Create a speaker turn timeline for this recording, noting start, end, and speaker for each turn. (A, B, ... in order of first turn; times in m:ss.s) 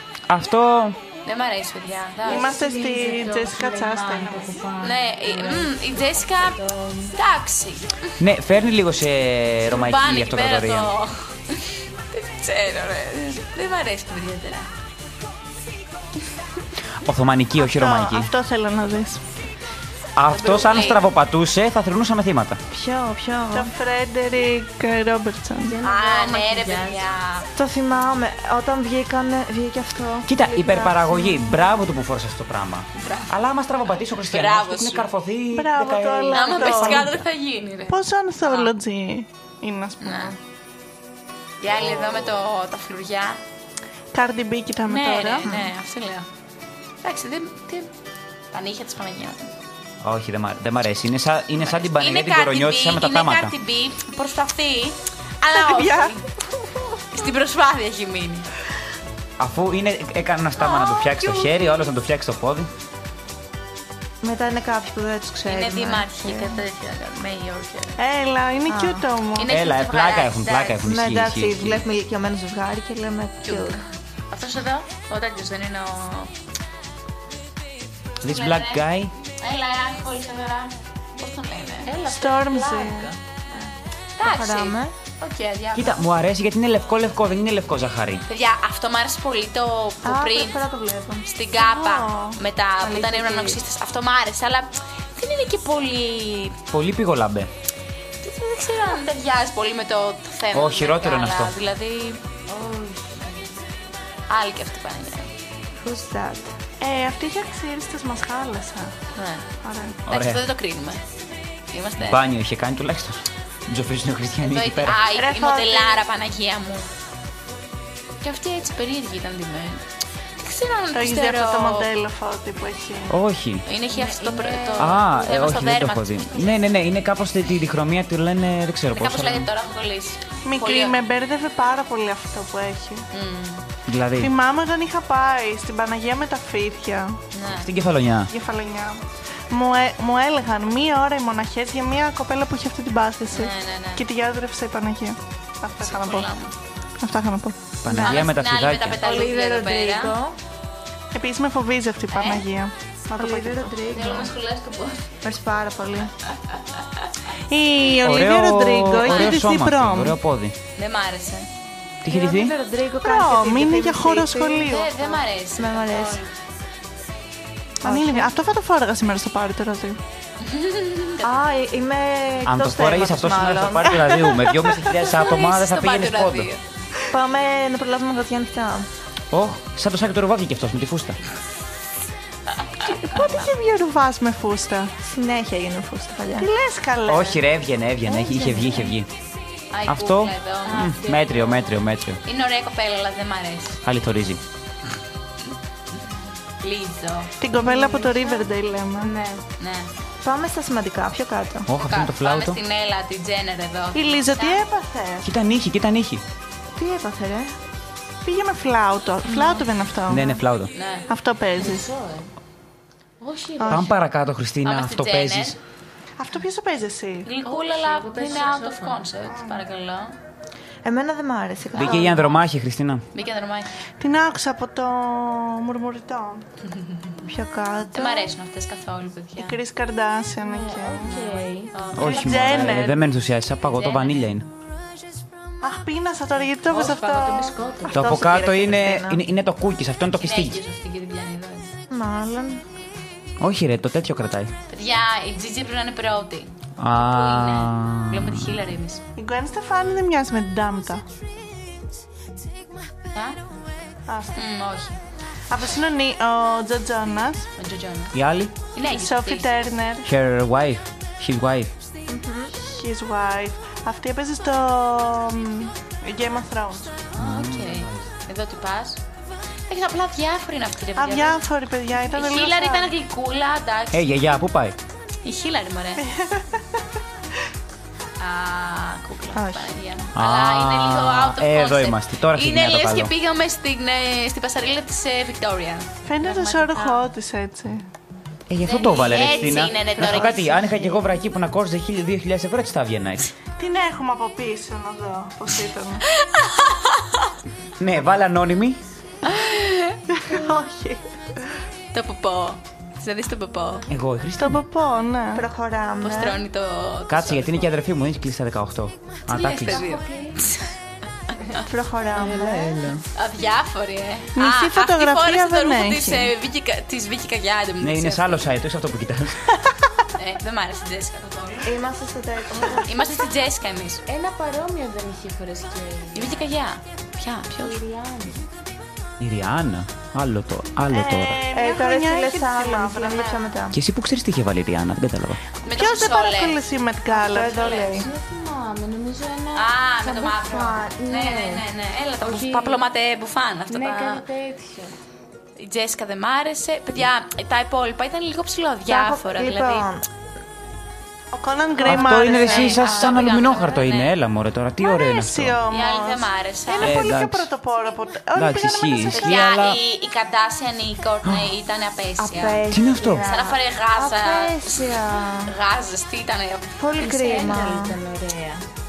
0:00.3-0:01.0 A
0:01.2-0:02.7 B
0:02.2-0:04.6 C
0:02.3-0:07.1 D
0:04.8-0:08.2 B
0:08.2-0:10.9 A
0:09.6-0:14.7 B
0:17.0-0:18.3 A
0:17.6-0:19.2 C
0:20.2-0:22.6 A
0:20.3-0:21.1 B
0:22.7-0:23.7 E
0:23.5-0:25.8 C
0:25.6-0:27.0 D
0:25.8-0:27.5 B
0:27.6-0:31.4 E
0:30.2-0:37.2 A
0:32.9-0:33.3 B
0:34.2-0:35.1 B
0:35.5-0:37.1 C
0:36.3-0:38.7 B
0:37.9-0:40.4 C
0:40.0-0:40.3 B
0:41.6-0:43.4 B
0:41.7-0:42.3 A
0:44.1-0:45.5 C
0:44.8-0:46.3 B
0:47.0-0:47.9 B
0:48.5-0:49.5 B
0:50.0-0:53.5 A
0:51.6-0:56.3 B
0:55.5-0:56.9 C
0:57.1-0:58.5 B
0:59.4-1:02.7 A
1:00.6-1:01.5 B
1:04.2-1:06.6 E
1:05.4-1:08.0 B
1:08.0-1:09.5 C
1:08.7-1:09.0 E
1:09.3-1:10.8 B
1:09.5-1:11.9 A
1:10.8-1:13.8 E
1:13.4-1:16.3 B
1:18.2-1:19.1 A
1:18.2-1:18.8 B
1:19.4-1:22.0 B
1:21.8-1:23.1 D
1:22.0-1:23.1 C
1:23.5-1:26.0 B
1:24.2-1:24.9 E
1:25.7-1:28.2 A
1:28.3-1:30.6 B
1:30.0-1:31.3 E
1:31.3-1:36.6 B
1:31.6-1:32.4 C
1:32.8-1:33.6 E
1:36.7-1:37.5 A
1:38.2-1:42.2 B
1:40.5-1:41.5 A
1:42.5-1:43.3 D
1:44.3-1:45.3 B
1:45.8-1:46.5 E
1:46.8-1:48.9 C
1:49.1-1:49.5 B
1:49.6-1:50.0 C
1:50.0-1:50.4 A
1:50.1-1:51.0 B
1:51.7-1:52.2 B
1:52.0-1:55.0 A
1:54.4-1:56.9 B
1:55.1-1:56.0 C
1:58.2-1:59.8 B
2:00.4-2:01.9 B
2:00.9-2:03.2 C
2:03.1-2:03.6 A
2:03.6-2:06.6 B
2:03.9-2:05.0 D
2:04.8-2:09.5 A
2:08.9-2:11.0 B
2:10.4-2:13.0 C
2:13.1-2:13.6 B
2:13.9-2:14.3 A
2:14.2-2:17.2 C
2:17.3-2:17.7 B
2:17.5-2:18.3 A
2:18.3-2:26.3 C
2:23.3-2:24.0 B
2:25.8-2:26.5 B
2:27.0-2:27.6 C
2:27.8-2:29.0 A
2:27.9-2:28.2 E
2:28.0-2:30.2 B
2:29.0-2:30.4 E
2:31.1-2:33.8 C
2:32.1-2:32.5 B
2:33.2-2:34.3 E
2:33.9-2:35.1 B
2:35.2-2:36.1 E
2:37.5-2:40.2 C
2:38.0-2:40.5 A
2:40.8-2:41.5 B
2:42.0-2:42.5 A
2:42.1-2:44.9 E
2:43.0-2:45.1 C
2:44.6-2:46.3 B
2:45.6-2:46.2 E
2:47.8-2:48.3 E
2:47.8-2:50.0 C
2:50.4-2:51.3 B
2:51.2-2:54.1 E
2:52.4-2:56.5 A
2:53.9-2:54.7 C
2:55.0-2:56.6 B
2:57.1-2:58.9 E
2:59.3-3:01.2 A
3:02.8-3:04.9 C
3:05.0-3:06.5 E
3:06.4-3:07.4 C
3:07.0-3:09.1 A
3:09.7-3:10.9 B
3:09.8-3:12.2 A
3:10.6-3:11.7 D
3:12.2-3:13.8 B
3:13.8-3:14.4 A
3:15.9-3:17.3 B
3:17.4-3:19.2 C
3:17.6-3:18.4 D
3:19.0-3:19.4 D
3:19.6-3:19.9 B
3:20.2-3:21.7 E
3:21.7-3:22.6 A
3:21.7-3:24.6 B
3:23.9-3:25.3 C
3:25.2-3:26.2 A
3:26.8-3:27.6 E
3:28.2-3:30.4 C
3:30.0-3:30.7 A
3:30.7-3:31.1 B
3:31.1-3:31.9 C
3:31.6-3:32.3 D
3:33.2-3:33.9 D
3:33.6-3:33.9 C
3:33.7-3:35.6 A
3:34.6-3:35.6 B
3:36.2-3:37.3 C
3:37.2-3:40.2 B
3:37.4-3:39.0 D
3:39.3-3:39.6 C
3:40.8-3:42.2 E
3:41.8-3:43.0 A
3:43.1-3:43.7 B
3:44.0-3:46.4 C
3:47.2-3:48.3 E
3:47.9-3:49.6 B
3:49.4-3:51.3 C
3:50.4-3:51.9 D
3:51.0-3:52.9 B
3:51.9-3:54.5 A
3:52.1-3:53.0 C
3:53.6-3:54.2 B
3:55.6-3:57.6 C
3:56.7-3:58.0 D
3:57.9-3:59.2 E
3:57.9-4:00.6 A
4:00.2-4:01.7 B
4:01.9-4:02.6 E
4:03.4-4:04.5 A
4:04.7-4:09.0 B
4:06.8-4:08.7 A
4:09.2-4:11.0 C
4:13.1-4:13.4 B
4:14.1-4:14.4 C
4:14.3-4:15.0 B
4:15.5-4:17.5 C
4:17.6-4:18.1 B
4:18.1-4:18.6 A
4:18.7-4:19.5 B
4:18.8-4:20.1 C
4:20.0-4:21.7 A
4:22.1-4:22.5 E
4:22.5-4:27.0 C
4:27.1-4:29.0 B
4:27.1-4:28.1 A
4:29.7-4:31.4 B
4:31.0-4:32.9 C
4:32.1-4:34.1 B
4:33.9-4:34.8 A
4:35.2-4:36.0 B
4:36.0-4:36.8 C
4:38.2-4:47.0 B
4:39.4-4:39.6 C
4:40.1-4:43.1 A
4:46.0-4:47.8 C
4:48.5-4:53.3 A
4:48.6-4:50.7 B
4:53.6-4:56.0 C
4:56.1-4:57.3 B
4:57.8-4:58.8 A
4:59.2-5:00.0 B
5:00.1-5:01.0 C
5:01.9-5:03.9 B
5:03.9-5:04.6 A
5:04.4-5:05.4 C
5:05.3-5:06.4 E
5:06.0-5:07.7 B
5:07.1-5:10.0 A
5:09.3-5:10.7 B
5:09.7-5:10.4 D
5:11.6-5:12.9 E
5:12.1-5:13.0 A
5:13.1-5:18.5 B
5:14.3-5:16.3 C
5:17.8-5:19.5 A
5:20.1-5:21.8 B
5:21.6-5:23.2 E
5:22.8-5:24.0 B
5:24.1-5:26.4 D
5:26.1-5:27.8 B
5:27.6-5:28.4 D
5:29.2-5:31.4 A
5:30.9-5:33.5 C
5:31.5-5:33.8 E
5:33.7-5:35.4 A
5:35.6-5:36.6 B
5:35.7-5:37.7 C
5:37.1-5:38.1 E
5:37.5-5:38.0 B
5:37.9-5:41.6 D
5:39.5-5:44.3 B
5:40.6-5:40.9 E
5:42.2-5:42.8 D
5:43.7-5:44.9 D
5:45.6-5:49.9 B
5:48.9-5:50.0 E
5:51.3-5:53.1 C
5:51.8-5:55.6 A
5:51.9-5:54.1 B
5:54.8-5:59.3 C
5:55.7-5:57.0 B
5:56.8-5:57.5 A
5:58.3-5:59.8 A
5:59.1-6:02.6 B
6:01.2-6:01.5 A
6:02.2-6:05.5 E
6:02.7-6:03.3 A
6:03.2-6:06.7 B
6:06.8-6:08.0 E
6:07.0-6:08.6 D